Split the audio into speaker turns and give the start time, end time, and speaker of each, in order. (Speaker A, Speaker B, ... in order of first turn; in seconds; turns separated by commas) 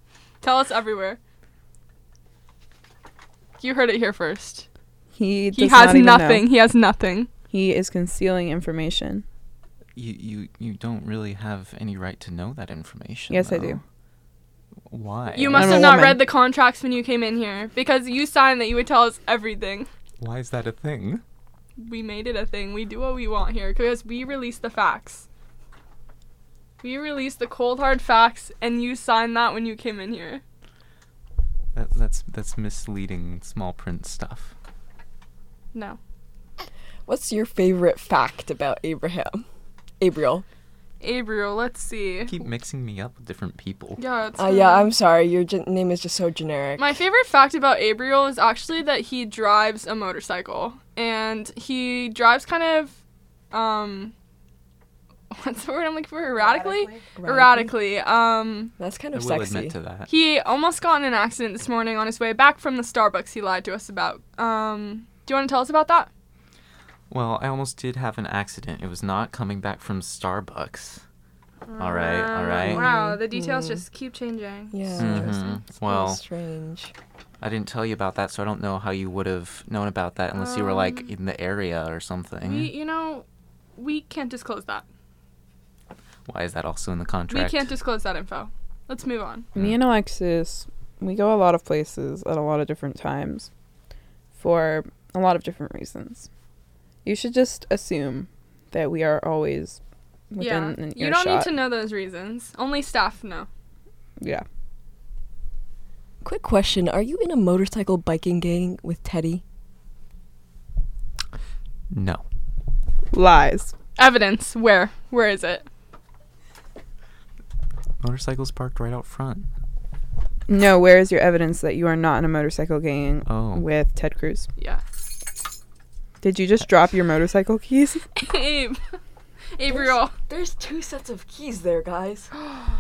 Speaker A: 0.4-1.2, Speaker A: 3.6-4.7, Speaker B: 5.2-6.5, Speaker A: 5.5-7.3, Speaker B: 7.5-9.2, Speaker C: 10.0-13.8, Speaker B: 13.3-13.8, Speaker C: 14.9-15.9, Speaker A: 15.3-19.9, Speaker B: 15.5-16.2, Speaker C: 20.2-21.2, Speaker A: 21.8-25.3, Speaker A: 26.8-30.4, Speaker C: 31.7-34.5, Speaker A: 35.7-36.0, Speaker D: 37.1-39.5, Speaker D: 40.0-40.5, Speaker A: 41.0-42.4, Speaker C: 42.3-44.0, Speaker A: 44.0-44.9, Speaker D: 44.4-47.0, Speaker A: 46.8-52.9, Speaker A: 53.5-54.1, Speaker A: 55.3-58.7, Speaker B: 56.4-57.1, Speaker D: 57.2-57.7, Speaker D: 58.8-59.8, Speaker C: 59.1-60.1, Speaker A: 60.1-66.1, Speaker C: 67.1-71.0, Speaker A: 71.7-75.3, Speaker C: 71.8-72.8, Speaker D: 72.6-73.8, Speaker D: 74.7-76.9, Speaker C: 75.0-76.2, Speaker C: 77.4-82.7, Speaker A: 80.3-81.1, Speaker A: 82.4-83.2, Speaker A: 83.8-84.8, Speaker C: 86.3-87.7, Speaker A: 87.3-89.5, Speaker B: 89.5-93.5, Speaker B: 94.4-96.3, Speaker B: 97.0-99.8, Speaker B: 100.3-101.5, Speaker A: 100.4-103.5, Speaker B: 104.2-104.5, Speaker D: 106.2-109.4, Speaker C: 111.9-112.2, Speaker B: 113.1-113.7, Speaker A: 114.0-115.7, Speaker C: 118.0-119.5, Speaker B: 120.5-124.5, Speaker C: 123.3-123.6, Speaker B: 126.2-128.0, Speaker A: 128.2-128.8, Speaker A: 129.6-130.1, Speaker D: 129.7-132.3